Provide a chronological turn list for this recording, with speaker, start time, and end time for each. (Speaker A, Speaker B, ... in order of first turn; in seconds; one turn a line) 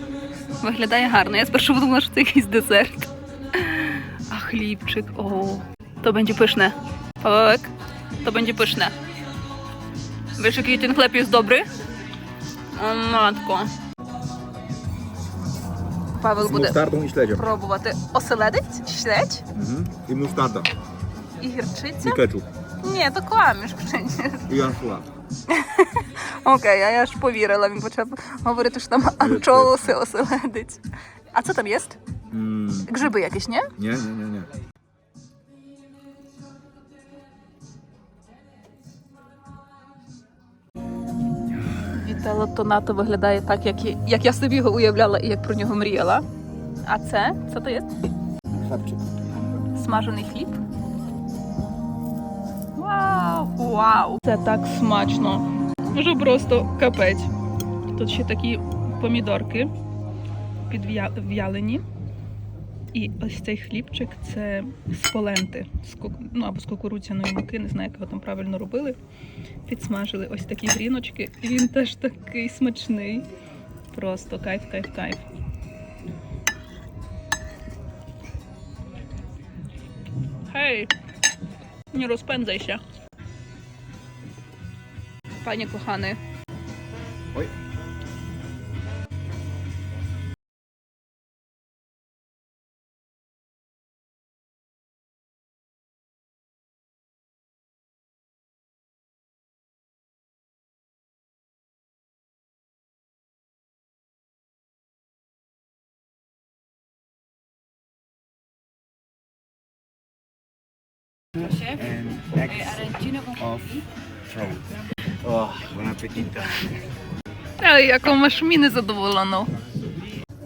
Speaker A: 0.6-8.9
Speaker A: 10.4-11.7
Speaker A: 12.8-13.7
Speaker A: 16.2-16.8
Speaker B: 16.4-17.5
Speaker A: 17.3-19.4
Speaker B: 19.5-20.7
Speaker A: 21.4-22.2
Speaker B: 22.0-22.5
Speaker A: 22.8-24.4
Speaker B: 24.5-25.1
Speaker A: 25.5-30.8
Speaker B: 29.2-29.9
Speaker A: 31.3-32.0
Speaker B: 32.3-32.9
Speaker A: 32.9-33.7
Speaker B: 33.8-34.5
Speaker A: 41.9-46.2
Speaker A: 46.9-47.9
Speaker B: 48.6-49.0
Speaker A: 49.6-50.6
Speaker A: 52.8-57.3
Speaker A: 57.9-59.7
Speaker A: 60.7-61.8
Speaker A: 62.9-69.0
Speaker A: 69.7-73.3
Speaker A: 73.9-75.2
Speaker A: 80.5-80.9
Speaker A: 81.9-82.8
Speaker A: 85.4-86.2
Speaker A: 111.4-111.8
Speaker C: 111.5-114.6
Speaker A: 112.5-113.4
Speaker B: 115.2-115.9
Speaker C: 115.8-116.3
Speaker A: 117.6-119.5